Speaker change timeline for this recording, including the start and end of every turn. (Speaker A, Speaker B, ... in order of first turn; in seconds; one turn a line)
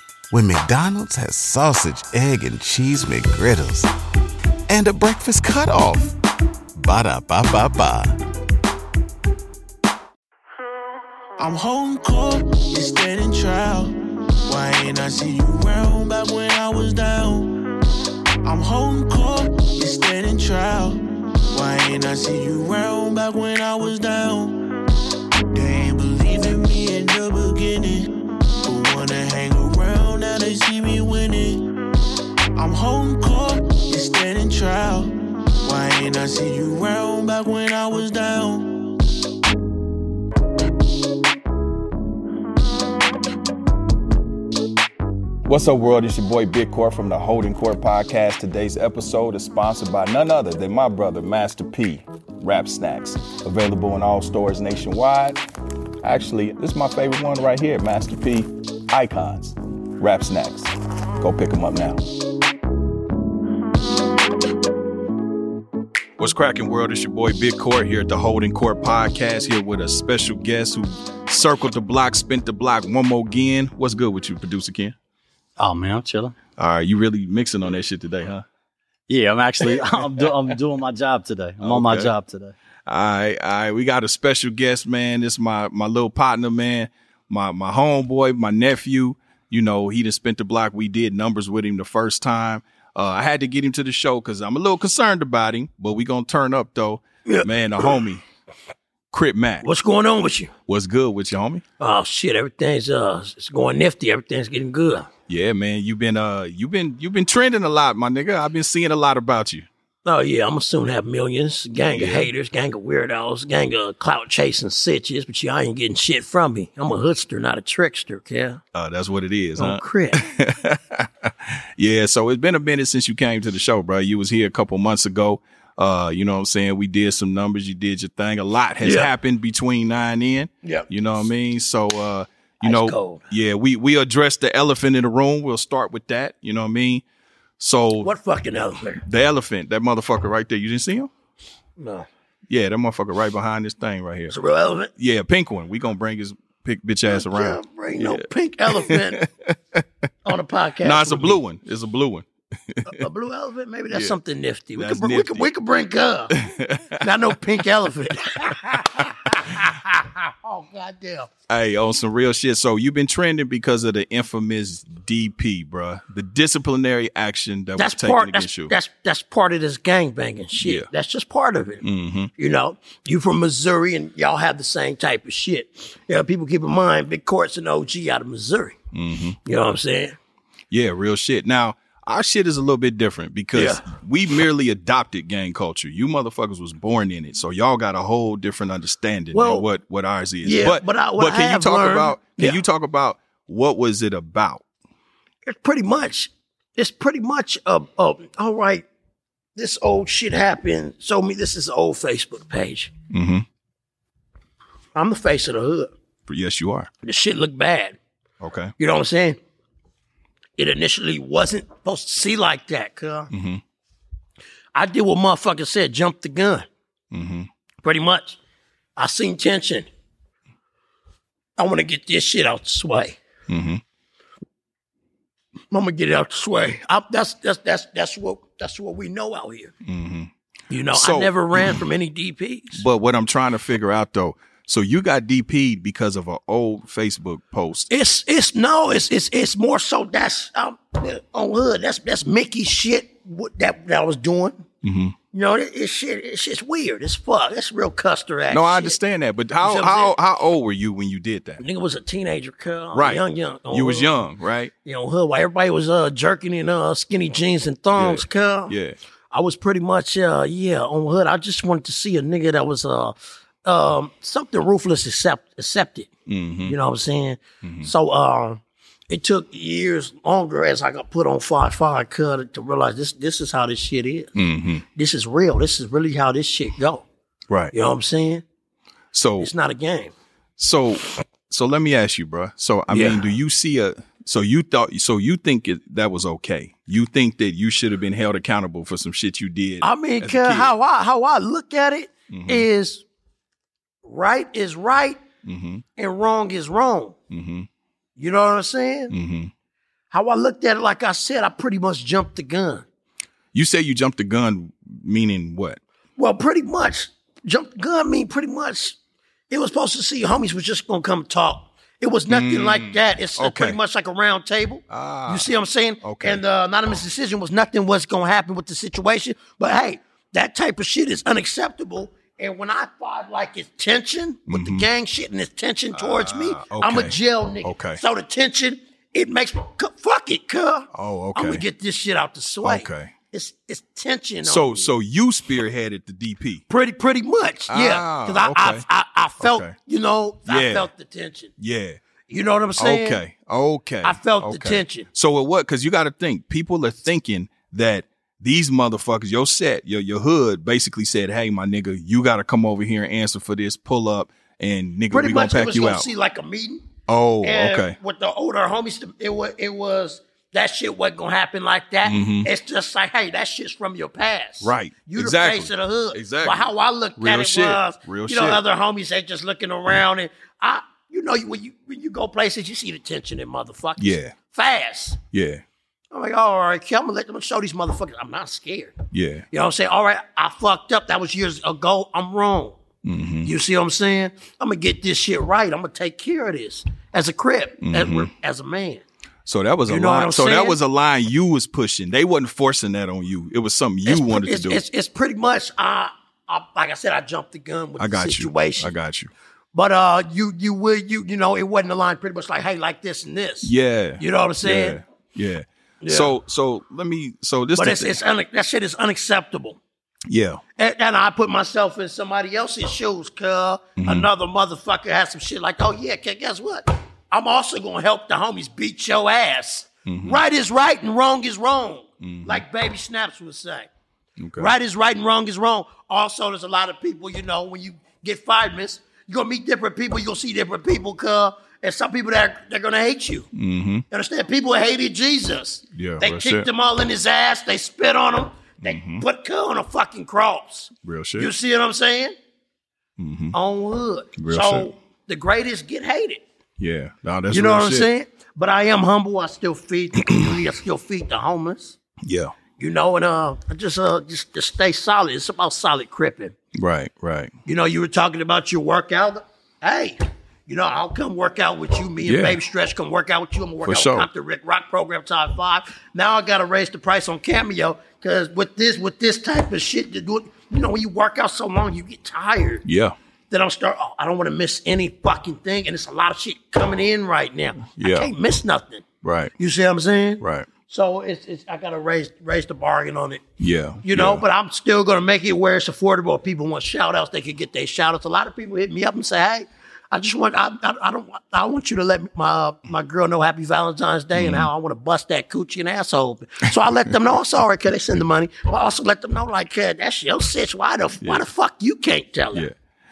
Speaker A: 0.3-3.9
Speaker A: 4.7-6.1
Speaker A: 6.7-8.2
Speaker B: 11.4-13.9
Speaker B: 14.4-17.6
Speaker B: 18.4-21.0
Speaker B: 21.5-24.6
Speaker B: 25.5-31.7
Speaker B: 32.5-38.8
Speaker C: 45.4-55.4
Speaker C: 56.0-62.0
Speaker C: 66.2-74.9
Speaker D: 75.6-76.3
Speaker C: 76.6-78.4
Speaker D: 79.1-82.5
Speaker C: 81.6-82.1
Speaker C: 82.8-98.2
Speaker E: 97.2-98.0
Speaker C: 99.1-99.7
Speaker E: 99.6-100.5
Speaker C: 100.7-101.6
Speaker E: 101.8-105.1
Speaker C: 105.3-109.7
Speaker E: 110.0-118.6
Speaker C: 111.9-112.3
Speaker C: 118.7-137.0
Speaker E: 119.6-120.2
Speaker E: 128.8-129.1
Speaker E: 132.6-133.2
Speaker C: 137.6-138.1
Speaker E: 138.0-139.0
Speaker C: 139.0-141.1
Speaker E: 141.8-142.1
Speaker C: 142.5-144.3
Speaker E: 144.3-144.9
Speaker C: 145.0-149.8
Speaker E: 147.1-149.2
Speaker E: 150.2-151.4
Speaker C: 150.8-153.0
Speaker E: 152.8-156.4
Speaker C: 153.9-154.2
Speaker C: 154.8-155.5
Speaker C: 156.3-157.1
Speaker E: 157.0-161.3
Speaker C: 158.7-159.0
Speaker C: 161.5-168.7
Speaker E: 167.8-171.8
Speaker C: 170.6-170.8
Speaker C: 171.8-172.3
Speaker E: 172.4-178.8
Speaker C: 178.9-179.4
Speaker E: 179.4-180.2
Speaker C: 180.7-194.6
Speaker E: 183.5-183.8
Speaker E: 189.3-189.7
Speaker E: 190.4-192.6
Speaker E: 195.4-198.9
Speaker E: 199.6-202.9
Speaker C: 203.1-203.4
Speaker E: 204.9-205.9
Speaker C: 206.3-206.9
Speaker E: 207.0-208.0
Speaker C: 208.4-208.7
Speaker E: 208.8-209.4
Speaker E: 210.6-213.3
Speaker C: 213.3-213.6
Speaker E: 214.7-216.7
Speaker C: 217.1-217.5
Speaker E: 217.8-218.4
Speaker E: 218.9-219.9
Speaker E: 221.6-223.2
Speaker C: 223.5-223.8
Speaker E: 225.7-229.7
Speaker C: 229.8-230.3
Speaker E: 230.7-232.8
Speaker C: 230.9-231.8
Speaker C: 232.8-237.9
Speaker E: 237.9-244.7
Speaker C: 244.8-245.1
Speaker E: 245.3-249.0
Speaker C: 248.5-251.6
Speaker E: 249.6-250.1
Speaker E: 251.6-254.1
Speaker C: 252.9-254.7
Speaker E: 254.8-258.8
Speaker C: 257.9-258.9
Speaker E: 259.3-266.1
Speaker C: 266.3-266.7
Speaker E: 266.6-274.3
Speaker C: 267.6-267.9
Speaker C: 274.4-274.8
Speaker E: 274.9-277.0
Speaker E: 277.7-278.4
Speaker C: 279.1-279.5
Speaker E: 279.4-280.1
Speaker C: 280.6-290.7
Speaker E: 282.9-283.3
Speaker E: 289.8-293.0
Speaker C: 292.3-292.6
Speaker E: 294.0-295.2
Speaker C: 295.4-295.8
Speaker E: 296.0-297.1
Speaker C: 297.3-297.7
Speaker E: 298.2-299.1
Speaker C: 299.1-299.5
Speaker E: 300.1-302.8
Speaker C: 303.5-305.8
Speaker E: 306.2-309.0
Speaker E: 309.5-334.9
Speaker C: 312.3-313.8
Speaker C: 314.9-315.5
Speaker C: 316.0-316.4
Speaker C: 324.5-324.9
Speaker C: 325.9-328.0
Speaker C: 330.9-331.6
Speaker C: 332.6-333.1
Speaker C: 334.4-336.6
Speaker E: 336.7-341.5
Speaker C: 337.7-338.8
Speaker C: 339.4-339.7
Speaker C: 340.5-340.9
Speaker C: 341.6-342.0
Speaker E: 342.3-343.2
Speaker C: 342.8-356.1
Speaker E: 344.0-345.1
Speaker E: 355.1-356.9
Speaker C: 357.1-357.9
Speaker E: 357.4-375.2
Speaker C: 362.0-362.5
Speaker C: 364.6-368.6
Speaker C: 374.0-374.3
Speaker C: 375.3-375.6
Speaker E: 376.1-379.0
Speaker C: 379.1-379.4
Speaker E: 379.5-382.8
Speaker C: 383.0-383.5
Speaker E: 383.4-389.0
Speaker C: 387.8-388.3
Speaker C: 389.4-394.8
Speaker E: 389.9-390.8
Speaker E: 394.0-398.9
Speaker C: 398.0-399.3
Speaker E: 399.7-405.0
Speaker C: 403.6-408.1
Speaker E: 406.0-406.3
Speaker E: 407.8-409.8
Speaker C: 410.3-410.6
Speaker E: 410.8-423.9
Speaker C: 414.0-414.3
Speaker C: 420.1-420.4
Speaker C: 422.2-422.6
Speaker C: 424.4-424.7
Speaker E: 424.6-433.5
Speaker C: 433.5-434.0
Speaker E: 434.1-442.3
Speaker C: 435.9-436.7
Speaker C: 438.8-439.2
Speaker C: 441.0-441.5
Speaker C: 443.2-443.5
Speaker E: 443.5-446.4
Speaker C: 444.4-444.9
Speaker C: 446.8-448.1
Speaker E: 447.5-452.0
Speaker C: 452.2-452.5
Speaker E: 452.8-456.5
Speaker C: 456.7-457.5
Speaker E: 457.6-472.8
Speaker C: 462.2-462.6
Speaker C: 463.8-464.3
Speaker C: 472.8-473.1
Speaker E: 473.5-479.0
Speaker C: 478.0-478.3
Speaker C: 479.2-479.5
Speaker E: 479.6-483.4
Speaker C: 480.4-480.7
Speaker C: 483.6-484.4
Speaker E: 484.0-502.7
Speaker C: 494.3-494.7